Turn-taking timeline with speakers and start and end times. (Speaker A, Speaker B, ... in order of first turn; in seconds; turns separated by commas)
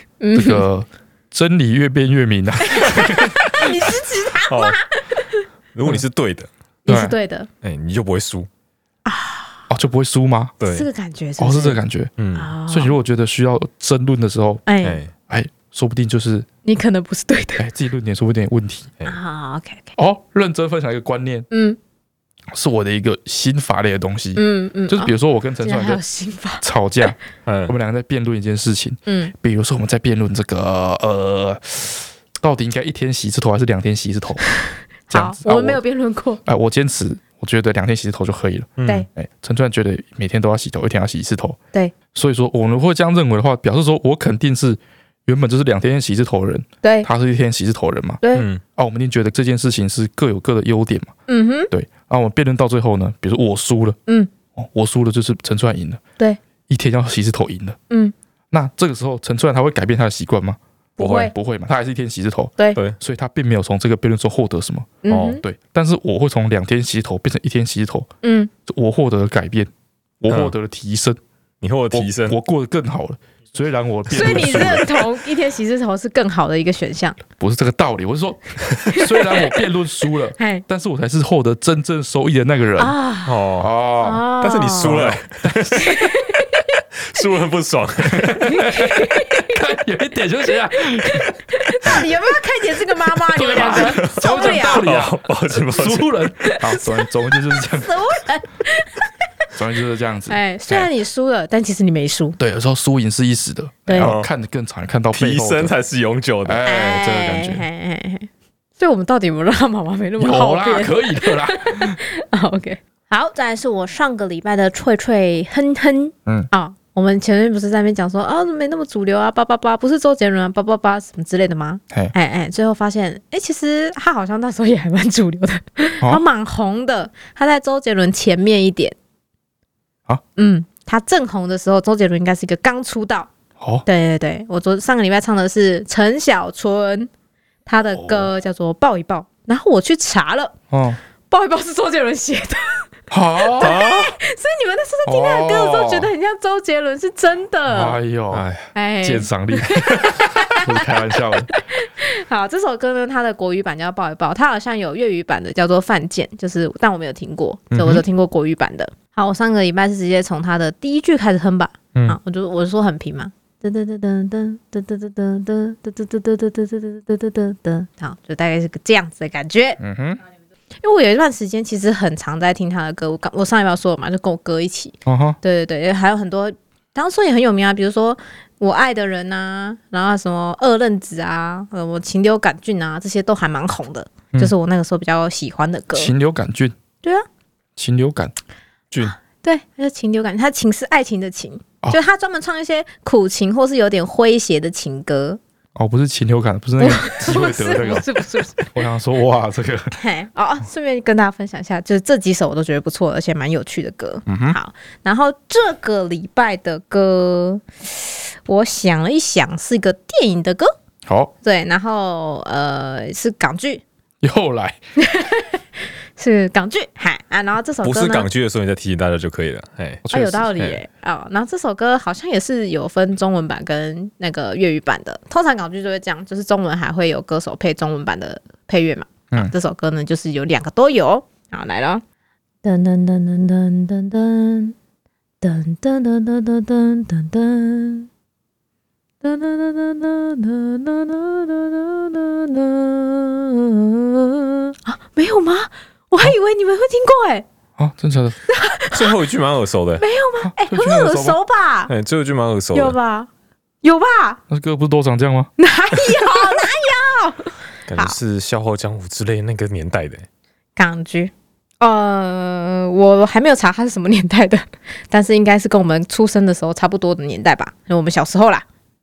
Speaker A: 0.2-0.6, Speaker B: 0.3-3.8, Speaker A: 2.6-5.5, Speaker C: 4.5-4.8, Speaker C: 5.7-6.5, Speaker A: 6.8-7.5, Speaker B: 6.9-7.2, Speaker C: 7.6-8.5, Speaker A: 9.1-9.6, Speaker B: 9.7-10.5, Speaker C: 10.6-10.9, Speaker A: 10.7-11.8, Speaker B: 11.4-12.1, Speaker C: 12.2-12.5, Speaker A: 12.3-12.9, Speaker B: 12.7-14.6, Speaker A: 14.7-15.0, Speaker C: 14.8-15.1, Speaker B: 15.3-16.5, Speaker A: 16.6-17.6, Speaker B: 17.6-18.9, Speaker A: 19.0-19.9, Speaker B: 19.9-21.5, Speaker A: 21.5-21.8, Speaker B: 22.5-26.0, Speaker A: 24.4-26.6, Speaker B: 26.6-34.4, Speaker C: 27.4-27.7, Speaker A: 29.1-29.3, Speaker A: 34.6-36.4, Speaker B: 35.1-35.8, Speaker B: 36.5-41.6, Speaker C: 38.8-39.0, Speaker B: 42.1-48.2, Speaker A: 46.8-47.1, Speaker A: 48.2-48.5, Speaker C: 48.3-48.6, Speaker B: 48.8-51.1, Speaker A: 51.3-51.7, Speaker B: 51.7-54.0, Speaker B: 54.5-56.0, Speaker B: 56.7-57.8, Speaker B: 58.5-60.6, Speaker A: 61.0-61.3, Speaker C: 61.0-61.3, Speaker B: 61.1-68.1, Speaker A: 65.0-65.4, Speaker C: 65.1-65.4, Speaker A: 68.2-68.5, Speaker B: 68.7-69.7, Speaker B: 70.2-71.2, Speaker C: 71.6-72.4, Speaker B: 71.9-75.0, Speaker A: 74.1-77.2, Speaker B: 77.3-82.9, Speaker A: 78.9-79.6, Speaker A: 80.4-80.6, Speaker A: 82.8-83.3, Speaker C: 83.2-83.7, Speaker B: 83.6-84.2, Speaker A: 84.0-85.0, Speaker C: 84.4-86.0, Speaker B: 84.8-86.0, Speaker A: 85.8-86.8, Speaker C: 87.0-88.5, Speaker B: 88.1-91.3, Speaker A: 88.4-89.6, Speaker A: 91.5-94.8, Speaker B: 91.8-92.1, Speaker B: 93.3-98.0, Speaker C: 93.5-96.1, Speaker A: 96.4-99.1, Speaker B: 99.5-100.9, Speaker A: 100.3-102.4, Speaker B: 102.4-105.7, Speaker A: 103.9-104.1, Speaker C: 104.0-104.3, Speaker C: 105.1-106.6, Speaker B: 106.4-107.7, Speaker A: 106.6-128.9, Speaker B: 110.2-112.0, Speaker A: 130.3-133.3, Speaker B: 133.6-133.8, Speaker A: 133.8-137.1, Speaker A: 137.7-140.6, Speaker B: 137.9-138.3, Speaker B: 140.7-141.0, Speaker A: 141.3-148.0, Speaker B: 143.1-143.8, Speaker C: 143.6-144.2, Speaker B: 145.1-146.1, Speaker B: 147.7-148.5, Speaker C: 148.3-148.7, Speaker A: 148.7-150.9, Speaker B: 149.0-151.5, Speaker C: 149.7-150.1, Speaker A: 151.5-169.8, Speaker B: 157.7-158.0, Speaker B: 169.8-170.2, Speaker A: 170.8-186.1, Speaker B: 175.1-175.4, Speaker B: 185.9-186.8, Speaker B: 187.8-188.3, Speaker A: 189.0-195.4, Speaker B: 195.7-198.1, Speaker A: 196.8-198.7, Speaker B: 198.7-199.9, Speaker A: 200.0-210.7, Speaker B: 204.3-204.6, Speaker B: 211.0-211.3, Speaker A: 211.4-213.8, Speaker B: 214.2-214.7, Speaker A: 215.0-218.3, Speaker C: 217.8-220.1, Speaker B: 220.1-220.5, Speaker A: 220.1-232.0, Speaker A: 232.6-234.7, Speaker A: 235.4-238.1, Speaker A: 239.2-247.4, Speaker B: 247.8-248.4, Speaker A: 248.5-249.1, Speaker C: 248.9-250.0, Speaker A: 250.0-251.9, Speaker B: 250.4-251.4, Speaker C: 251.9-253.0, Speaker A: 252.7-253.3, Speaker A: 253.8-254.4, Speaker B: 254.5-255.5, Speaker A: 255.6-258.1, Speaker C: 257.9-260.2, Speaker A: 260.8-268.6